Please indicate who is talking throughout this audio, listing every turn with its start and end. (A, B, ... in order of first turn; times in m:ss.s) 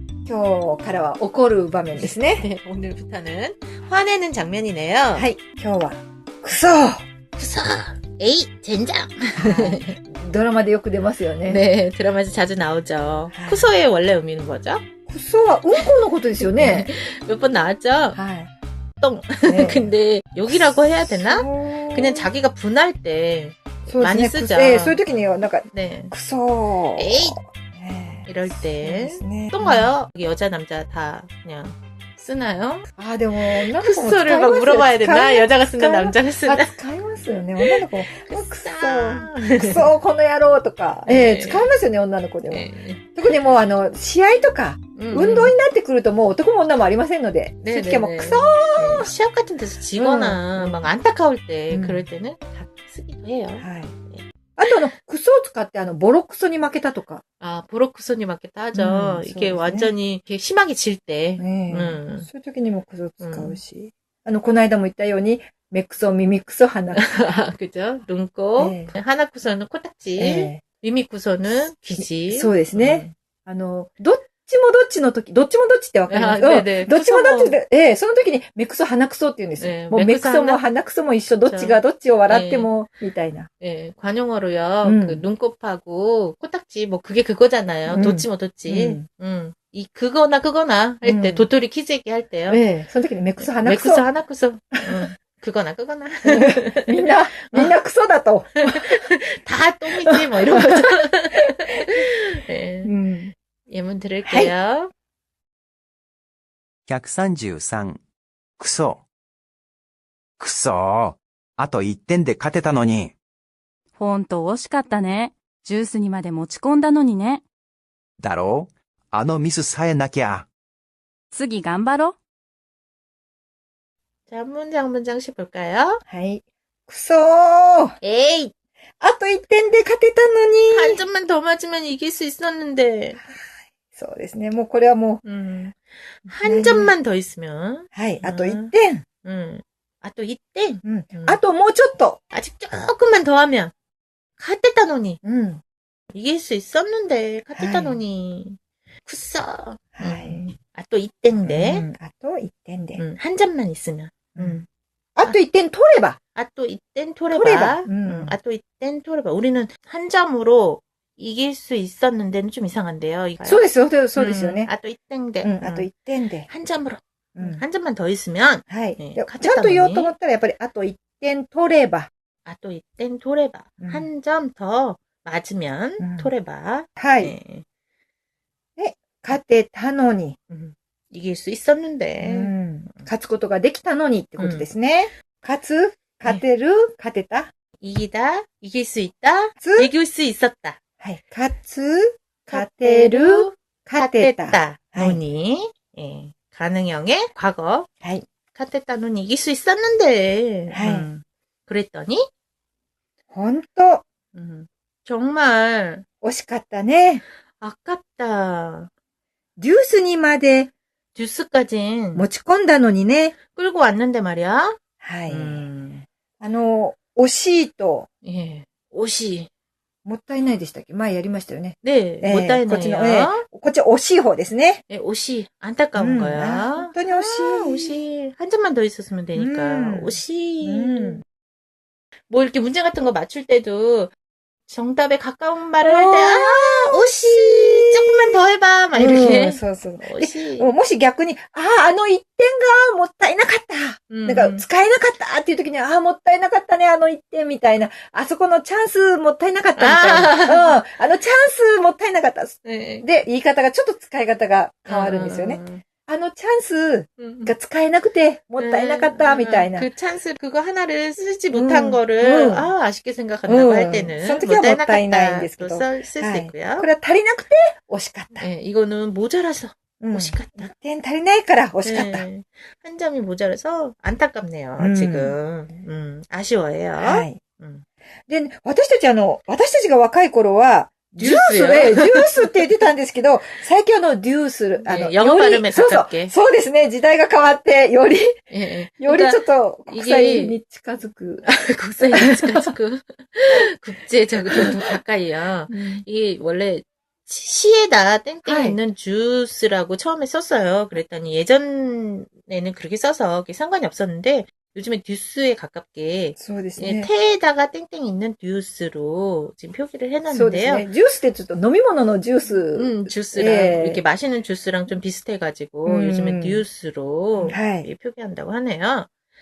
0:00.3-0:02.4 A
0:02.0-0:05.3 B
0:05.2-0:07.0 A
0:07.4-0:09.9 B
0:09.4-0:11.6 A
0:11.4-0:14.8 B
0:13.3-0:13.7 A
0:15.1-0:16.9 A
0:15.7-0:18.2 B
0:18.2-0:18.5 A
0:19.0-0:25.1 B
0:19.4-0:19.9 A
0:20.5-0:22.3 A
0:23.9-0:29.9 A
0:25.7-0:26.1 B
0:27.0-0:27.4 B
0:28.3-0:32.9 B
0:33.0-0:49.1 A
0:33.4-0:36.8 B
0:37.6-0:39.9 B
0:41.0-0:41.7 B
0:42.5-0:43.1 B
0:45.0-0:45.6 B
0:47.6-0:54.7 B
0:50.0-0:50.9 A
0:51.7-0:52.0 A
0:53.6-0:53.9 A
0:54.6-0:57.2 A
0:57.4-1:02.3 B
0:58.7-0:59.9 A
1:01.4-1:07.1 A
1:03.2-1:03.6 B
1:06.9-1:13.1 B
1:08.6-1:08.9 A
1:10.2-1:10.6 A
1:12.2-1:23.5 A
1:16.1-1:17.6 B
1:19.6-1:20.6 B
1:21.5-1:22.7 B
1:23.6-1:32.8 B
1:24.8-1:25.2 A
1:27.9-1:29.1 A
1:31.0-1:31.4 A
1:32.5-1:34.0 A
1:33.4-1:36.9 B
1:34.8-1:35.0 A
1:36.2-1:39.0 A
1:37.5-1:37.8 B
1:38.7-1:42.9 B
1:40.1-1:42.0 A
1:42.8-1:43.3 A
1:43.7-1:44.9 B
1:44.2-1:44.5 A
1:46.9-1:48.0 C
1:48.6-1:49.0 C
1:50.4-1:53.1 C
1:54.0-1:57.4 D
1:58.2-2:00.5 C
2:01.3-2:02.2 D
2:04.3-2:06.0 B
2:06.1-2:08.0 A
2:08.0-2:08.5 B
2:09.0-2:11.0 A
2:10.7-2:13.2 B
2:13.2-2:15.2 A
2:15.2-2:21.4 B
2:16.4-2:16.9 A
2:17.9-2:19.0 A
2:20.8-2:22.2 A
2:22.3-2:23.7 B
2:24.4-2:25.2 B
2:25.2-2:25.6 A
2:26.1-2:31.9 B
2:27.6-2:28.0 A
2:30.0-2:30.4 A
2:31.4-2:33.0 A
2:33.0-2:34.6 B
2:34.4-2:34.6 A
2:35.2-2:36.2 A
2:36.4-2:45.9 B
2:37.3-2:38.3 A
2:43.4-2:44.7 A
2:45.4-2:46.5 A
2:46.5-2:50.1 B
2:47.4-2:47.6 A
2:48.7-2:52.1 A
2:52.4-2:57.6 B
2:53.8-2:54.1 A
2:56.0-2:56.3 A
2:57.0-2:57.3 A
2:58.8-3:00.4 A
3:00.5-3:03.1 B
3:02.2-3:07.5 A
3:04.4-3:04.7 B
3:07.8-3:10.8 B
3:09.6-3:09.9 A
3:11.0-3:15.2 A
3:12.5-3:17.9 B
3:18.5-3:22.2 B
3:20.7-3:21.1 A
3:23.3-3:24.0 A
3:24.3-3:26.0 B
3:26.2-3:27.2 A
3:27.6-3:28.9 B
3:29.6-3:30.7 A
3:31.2-3:32.2 B
3:32.2-3:33.4 A
3:33.5-3:34.8 B
3:35.0-3:35.7 A
3:35.3-3:36.1 B
3:36.4-3:38.1 A
3:38.2-3:39.5 B
3:40.0-3:44.8 A
3:41.8-3:43.4 B
3:44.9-3:51.2 B
3:46.0-3:47.9 A
3:49.4-3:51.2 A
3:52.3-3:54.1 B
3:54.7-4:00.7 B
3:55.8-3:58.4 A
3:58.9-4:19.9 A
4:04.1-4:04.6 B
4:09.8-4:10.8 B
4:12.6-4:13.1 B
4:14.9-4:15.8 B
4:17.2-4:17.5 B
4:18.6-4:26.9 B
4:21.5-4:22.7 A
4:23.5-4:28.5 A
4:28.4-4:30.7 B
4:30.0-4:32.3 A
4:31.8-4:37.8 B
4:34.8-4:35.4 A
4:37.0-4:37.4 A
4:38.3-4:51.5 A
4:41.2-4:42.5 B
4:44.8-4:46.3 B
4:48.5-4:50.6 B
4:51.4-5:10.9 B
4:52.1-4:52.7 A
4:55.7-4:56.0 A
4:58.4-4:58.8 A
5:06.4-5:07.1 A
5:10.3-5:14.0 A
5:12.7-5:19.1 B
5:15.9-5:16.6 A
5:17.4-5:17.9 A